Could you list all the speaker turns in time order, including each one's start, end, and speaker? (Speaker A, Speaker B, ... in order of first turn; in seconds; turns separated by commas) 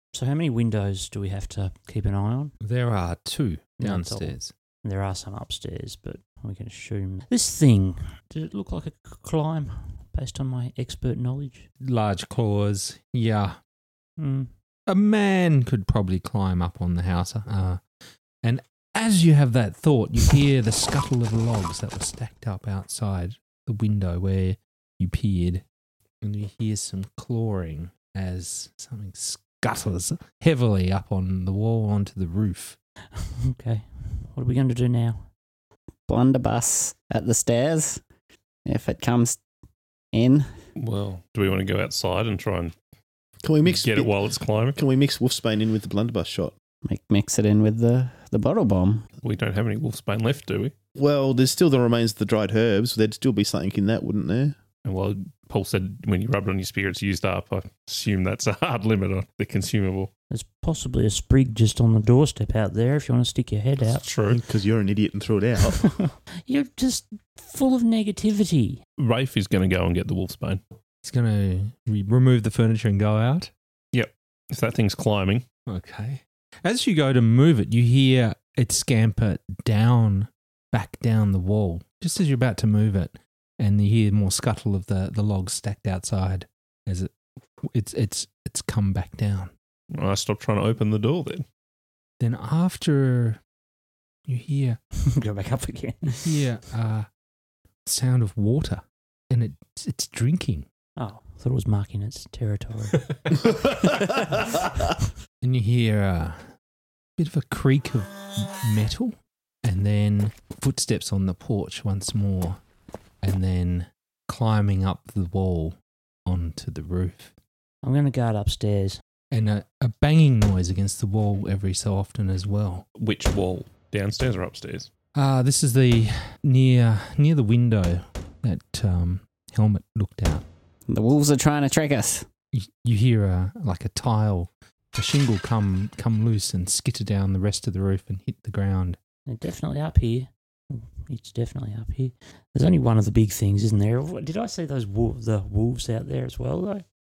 Speaker A: 0.1-2.5, Speaker B: 2.6-4.5, Speaker A: 3.8-11.7, Speaker B: 11.8-13.6, Speaker A: 14.2-14.5, Speaker B: 14.9-17.8, Speaker B: 18.4-25.6, Speaker B: 26.2-32.8, Speaker A: 33.2-35.3, Speaker C: 36.1-38.0, Speaker C: 38.7-39.4, Speaker C: 40.1-40.5, Speaker D: 40.8-42.7, Speaker E: 43.4-44.1, Speaker D: 43.7-44.8, Speaker E: 44.8-46.5, Speaker C: 46.9-49.0, Speaker D: 49.2-50.7, Speaker E: 51.0-54.6, Speaker D: 54.9-60.1, Speaker A: 60.3-64.0, Speaker D: 64.0-64.4, Speaker E: 64.3-66.0, Speaker A: 66.4-68.8, Speaker D: 69.0-70.6, Speaker B: 71.0-73.5, Speaker D: 73.9-75.4, Speaker B: 75.7-89.5, Speaker D: 89.9-91.5, Speaker B: 92.2-93.4, Speaker B: 94.3-94.8, Speaker A: 95.0-96.3, Speaker B: 96.2-97.1, Speaker B: 97.9-100.7, Speaker A: 101.0-104.1, Speaker B: 105.4-106.5, Speaker B: 107.2-112.6, Speaker B: 113.2-117.3, Speaker A: 117.8-119.0, Speaker B: 119.3-122.8, Speaker D: 123.0-124.9, Speaker B: 125.2-130.5, Speaker C: 130.9-132.3, Speaker B: 132.5-139.0, Speaker A: 139.3-146.8